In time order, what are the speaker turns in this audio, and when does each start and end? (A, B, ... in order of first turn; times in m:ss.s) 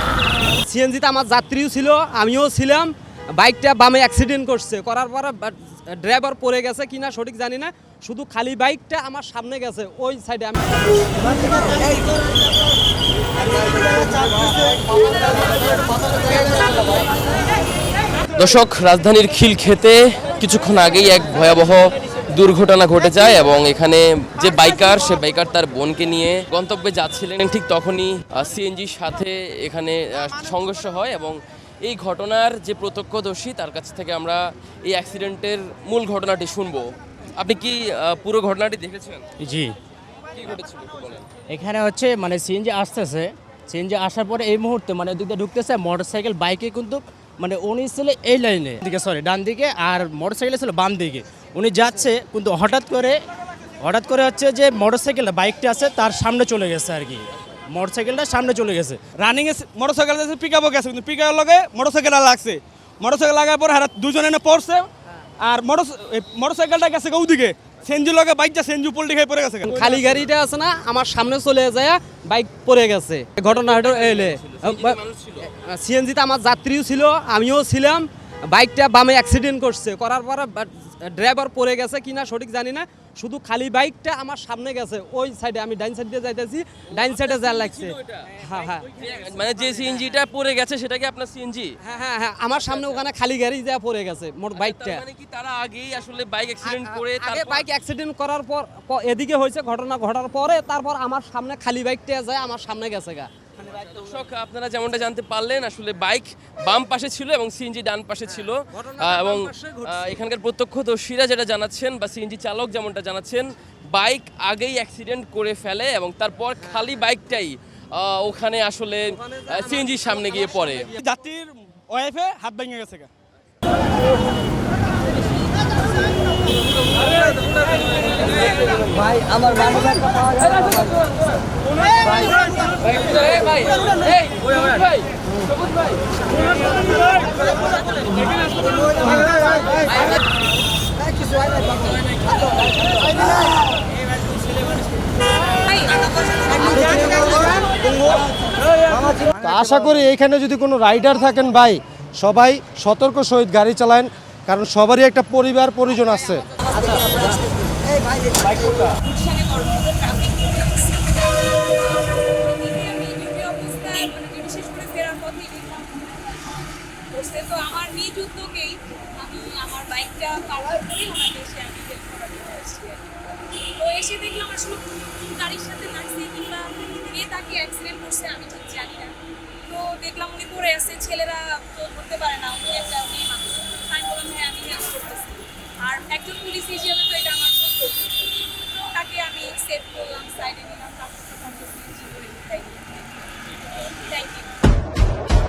0:00.6-0:11.3 A
0:18.4-0:39.2 B
0:39.4-0:39.7 C
0:40.4-0:41.2 B
0:41.5-0:53.2 C
0:53.8-0:59.1 C
0:59.1-1:04.9 D
1:05.4-1:10.1 D
1:09.7-1:28.9 A
1:13.5-1:15.5 B
1:27.0-1:28.3 B
1:28.9-1:31.7 B
1:31.8-1:35.0 A
1:34.5-1:37.6 B
1:36.6-1:43.9 A
1:43.8-1:49.4 B
1:48.3-1:50.2 A
1:49.9-2:00.9 B
2:01.0-2:03.1 D
2:10.5-2:10.9 B
2:12.8-2:15.1 B
2:25.6-2:27.6 E
2:29.1-2:36.4 F
2:36.7-2:37.4 E
2:38.2-2:53.0 E
2:53.6-2:59.1 E
2:59.7-3:13.3 E
3:14.0-3:14.5 E